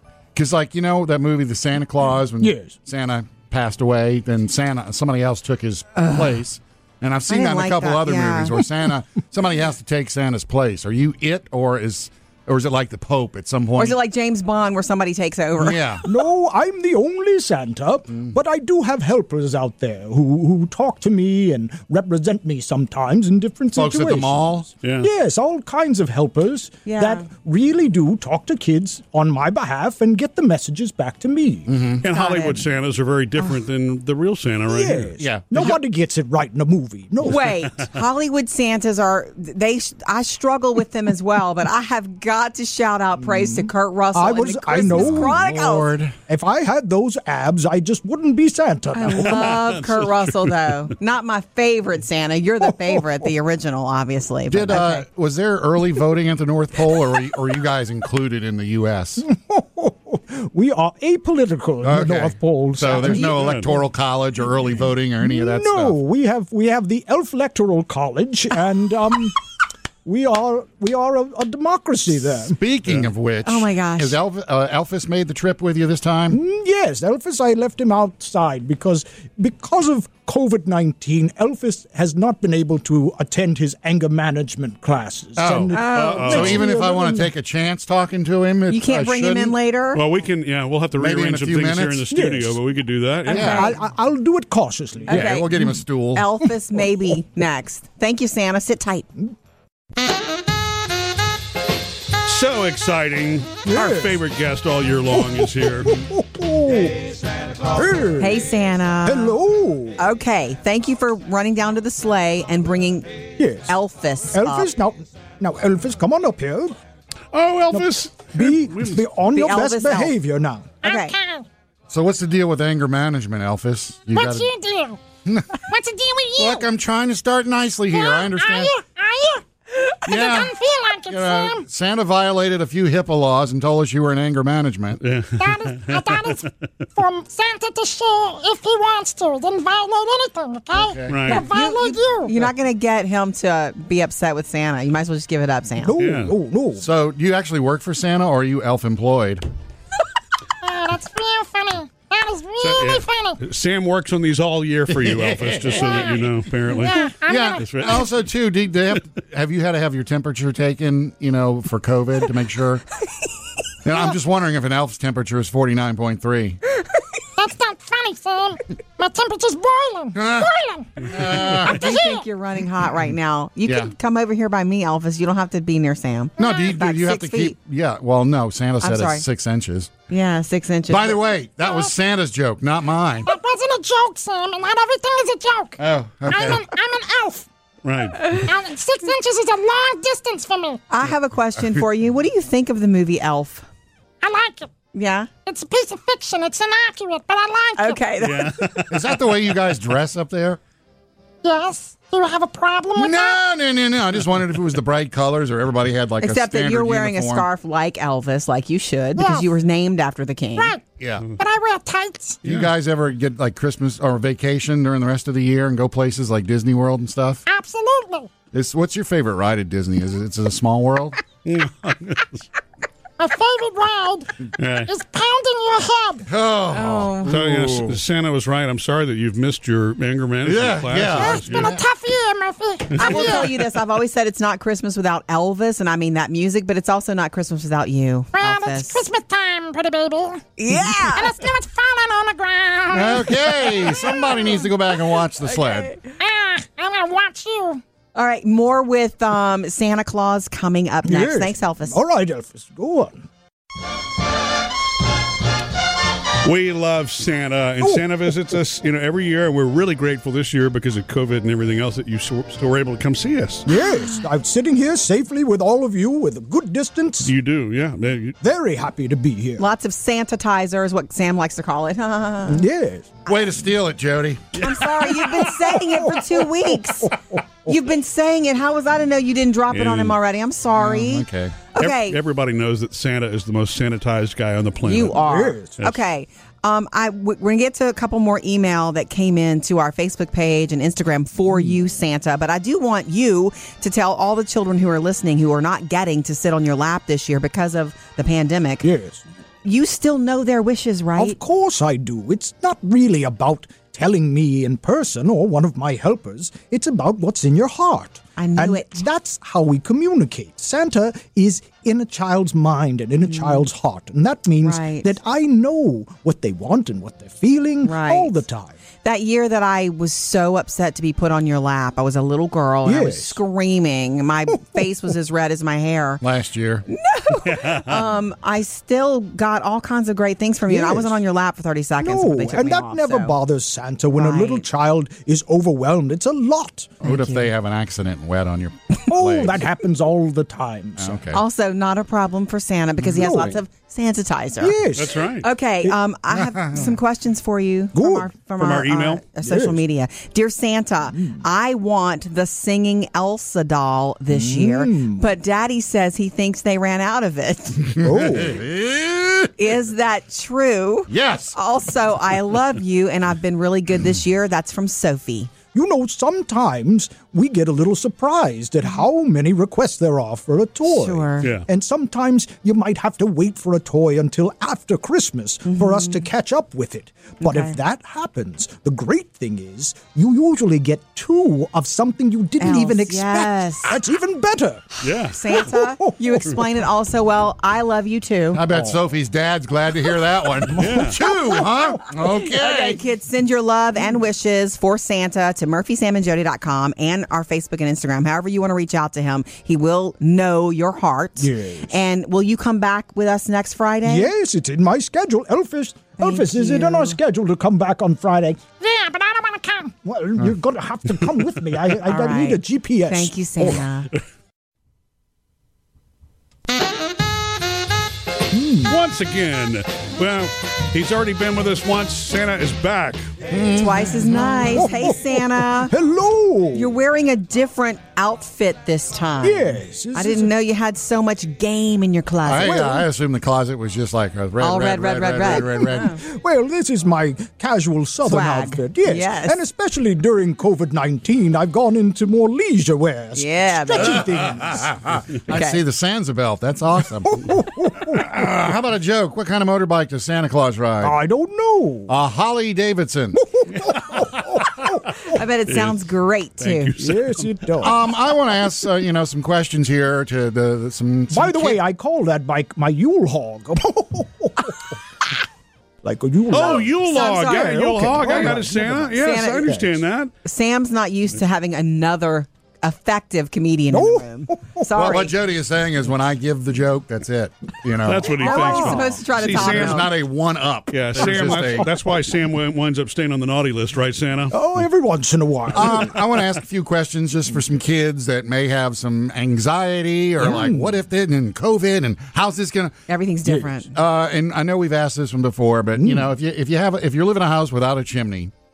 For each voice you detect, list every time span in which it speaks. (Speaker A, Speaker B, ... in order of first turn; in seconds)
Speaker A: 0.3-14.0, 15.6-16.0, 23.8-24.7, 31.7-32.0, 35.2-35.8, 44.8-46.2, 54.5-59.2, 61.8-66.0, 72.5-76.4, 85.4-89.5, 91.0-92.0, 93.3-93.7, 95.1-96.3, 121.9-124.5, 125.2-125.6, 126.4-128.7, 130.1-135.0, 140.7-141.2, 146.8-149.5, 155.0-156.2, 157.2-162.8, 163.8-166.6, 170.1-171.9, 173.6-173.9, 176.4-179.9, 180.9-183.3, 185.8-186.6, 198.9-200.6, 202.9-207.5, 211.0-211.3, 212.4-217.4, 218.5-221.2, 226.3-228.0, 230.4-231.8, 233.0-233.6, 242.9-246.0, 273.2-274.7, 280.7-281.6, 326.2-326.9, 337.0-339.6, 341.0-341.4, 346.3-346.9, 357.9-359.5, 361.1-361.5, 388.5-393.0, 423.5-424.6, 432.4-436.1, 444.7-451.2, 452.1-453.4, 457.8-461.8, 474.9-478.4, 479.5-481.9, 485.7-493.0, 493.9-498.5
Speaker B: 2.4-2.7, 16.0-31.7, 34.6-37.6, 43.2-45.4, 46.3-49.6, 52.6-53.0, 59.2-63.8, 65.2-69.4, 70.0-72.6, 76.3-87.3, 92.1-92.6, 93.3-95.8, 103.6-104.2, 105.1-107.1, 107.6-108.5, 109.0-110.0, 113.4-113.8, 114.3-116.8, 117.7-120.8, 145.8-146.8, 251.0-253.3, 257.8-258.3, 263.6-267.3, 268.4-269.6, 272.5-273.2, 275.4-277.7, 285.1-285.8, 291.5-291.8, 298.8-299.2, 301.1-318.8, 322.8-323.4, 330.7-331.2, 332.0-337.0, 339.1-341.2, 343.0-343.6, 344.6-345.3, 347.9-348.3, 349.4-349.8, 351.1-351.4, 354.3-355.2, 358.0-358.6, 365.7-384.9, 385.5-386.6, 388.7-389.0, 390.7-392.0, 401.4-402.0, 404.0-408.6, 410.0-413.8, 418.5-419.0, 424.6-426.9, 429.4-430.5, 432.6-433.0, 435.5-445.1, 447.2-448.2, 451.0-452.1, 453.3-455.2, 457.0-458.0, 461.3-464.9, 466.0-470.0, 473.9-474.9, 478.4-479.2, 481.2-481.9, 484.5-486.2, 490.4-490.9, 493.4-493.8, 496.0-496.3
Speaker C: 6.0-6.4, 7.3-8.6, 13.8-16.0, 26.9-27.3, 32.1-32.6, 37.2-46.0, 48.9-55.0, 73.4-74.2, 85.7-86.4, 88.7-90.0, 93.3-93.8, 95.1-99.1, 108.2-109.4, 110.0-114.7, 119.3-120.1, 120.8-121.1, 141.3-146.0, 171.4-177.5, 178.8-179.2, 180.1-181.2, 190.9-193.7, 194.9-195.3, 197.8-198.8, 206.2-210.8, 226.7-227.3, 232.9-239.0, 240.6-241.4, 248.1-252.0, 269.6-272.6, 274.6-277.1, 277.6-282.2, 284.8-298.9, 299.6-301.4, 308.4-309.0, 313.3-313.6, 314.6-315.1, 317.8-318.4, 319.0-326.2, 326.9-333.4, 334.1-334.6, 337.1-337.4, 341.3-344.8, 345.4-357.9, 359.6-365.5, 370.9-371.5, 375.7-376.2, 377.4-377.8, 382.6-384.0, 385.0-388.6, 392.2-404.3, 406.2-407.2, 412.0-414.1, 423.8-425.9, 426.7-433.0, 434.6-436.2, 438.2-439.6, 443.3-444.2, 445.5-445.8, 455.2-456.9, 467.0-467.9, 469.1-469.8, 470.4-475.3, 478.4-480.1, 493.1-493.9
Speaker D: 24.8-25.1, 32.0-35.1, 49.2-50.5, 63.3-63.7, 85.9-86.7, 89.9-93.6, 102.2-106.1, 117.3-119.0, 135.0-136.4, 141.1-141.5, 146.0-146.3, 152.6-158.1, 187.8-188.4, 198.2-199.2, 212.4-212.7, 221.4-222.4, 224.6-224.9, 227.3-231.7, 256.4-263.7, 267.2-268.4, 279.7-280.2, 281.8-285.2, 327.5-327.8, 344.9-345.4, 348.6-349.2, 385.0-385.6, 390.8-391.2, 418.9-423.3, 455.7-456.0, 456.6-457.5, 466.5-470.3, 478.0-480.1, 480.9-484.6
Speaker E: 120.8-121.5, 124.1-125.0, 125.7-126.7, 127.9-131.6, 135.4-142.3, 150.6-153.4, 155.8-157.9, 167.4-172.2, 176.4-176.7, 181.6-181.9, 183.2-187.5, 188.2-190.8, 194.2-194.7, 195.4-198.0, 201.4-203.4, 209.2-209.5, 210.6-210.8, 211.4-212.4, 217.4-218.3, 223.2-226.2, 231.0-233.4, 238.3-244.6, 246.1-247.8, 408.8-409.9